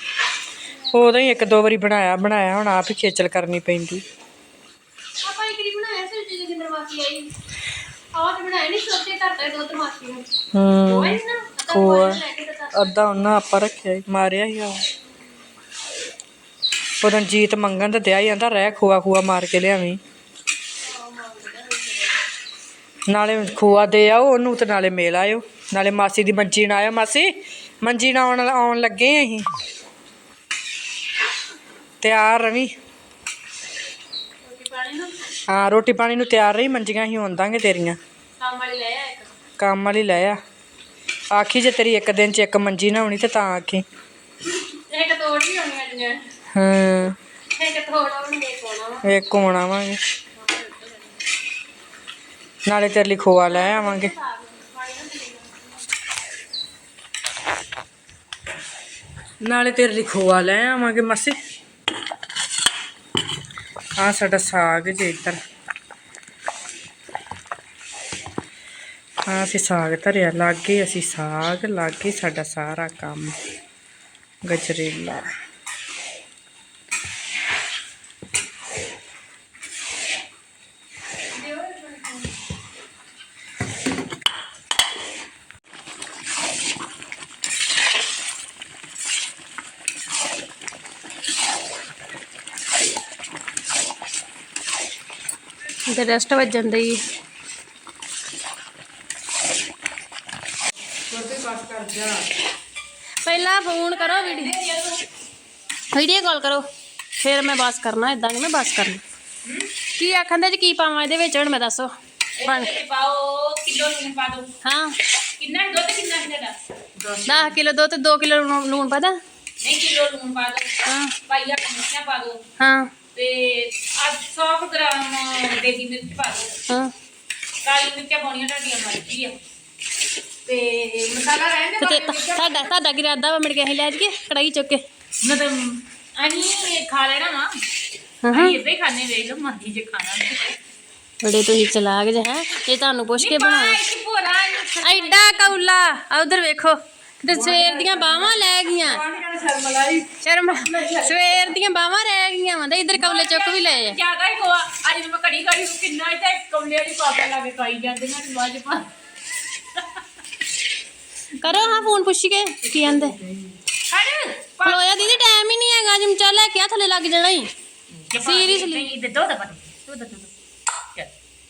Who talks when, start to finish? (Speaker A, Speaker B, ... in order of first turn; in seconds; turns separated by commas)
Speaker A: 0.9-4.0, Speaker B: 5.2-7.3, Speaker B: 8.1-10.2, Speaker A: 10.5-12.2, Speaker B: 10.8-13.2, Speaker A: 12.7-14.8, Speaker A: 17.0-20.0, Speaker B: 20.8-22.2, Speaker A: 23.1-27.3, Speaker A: 27.8-29.5, Speaker A: 32.0-32.7, Speaker B: 34.4-35.1, Speaker A: 35.5-38.0, Speaker B: 38.4-39.3, Speaker A: 39.6-40.4, Speaker A: 41.3-43.8, Speaker B: 44.5-46.2, Speaker A: 46.5-47.1, Speaker B: 47.5-49.0, Speaker A: 49.0-50.0, Speaker B: 50.4-51.1, Speaker A: 52.6-54.1, Speaker B: 53.5-55.7, Speaker A: 59.4-61.4, Speaker A: 64.0-65.4, Speaker A: 69.2-73.3, Speaker A: 74.4-75.3, Speaker B: 81.4-82.2, Speaker B: 95.9-97.0, Speaker A: 101.1-102.3, Speaker B: 103.2-104.5, Speaker C: 103.3-105.0, Speaker B: 105.9-106.7, Speaker B: 107.2-109.0, Speaker C: 109.4-109.7, Speaker B: 109.9-111.9, Speaker C: 112.4-114.5, Speaker B: 112.4-112.7, Speaker B: 114.6-115.0, Speaker C: 115.4-117.6, Speaker B: 117.3-119.2, Speaker C: 119.6-122.4, Speaker B: 120.8-121.1, Speaker B: 122.6-122.9, Speaker C: 123.1-126.6, Speaker B: 126.7-126.9, Speaker C: 127.6-129.4, Speaker C: 130.4-132.7, Speaker B: 131.8-134.8, Speaker C: 135.2-137.5, Speaker B: 138.2-138.6, Speaker C: 138.3-140.6, Speaker B: 141.2-143.8, Speaker C: 143.2-145.6, Speaker B: 144.8-149.0, Speaker A: 147.3-151.5, Speaker B: 150.2-154.0, Speaker C: 152.9-158.9, Speaker B: 161.4-163.2, Speaker C: 161.4-161.9, Speaker A: 162.6-163.6, Speaker C: 163.9-165.2, Speaker B: 164.6-167.5, Speaker C: 168.1-170.3, Speaker B: 168.2-168.9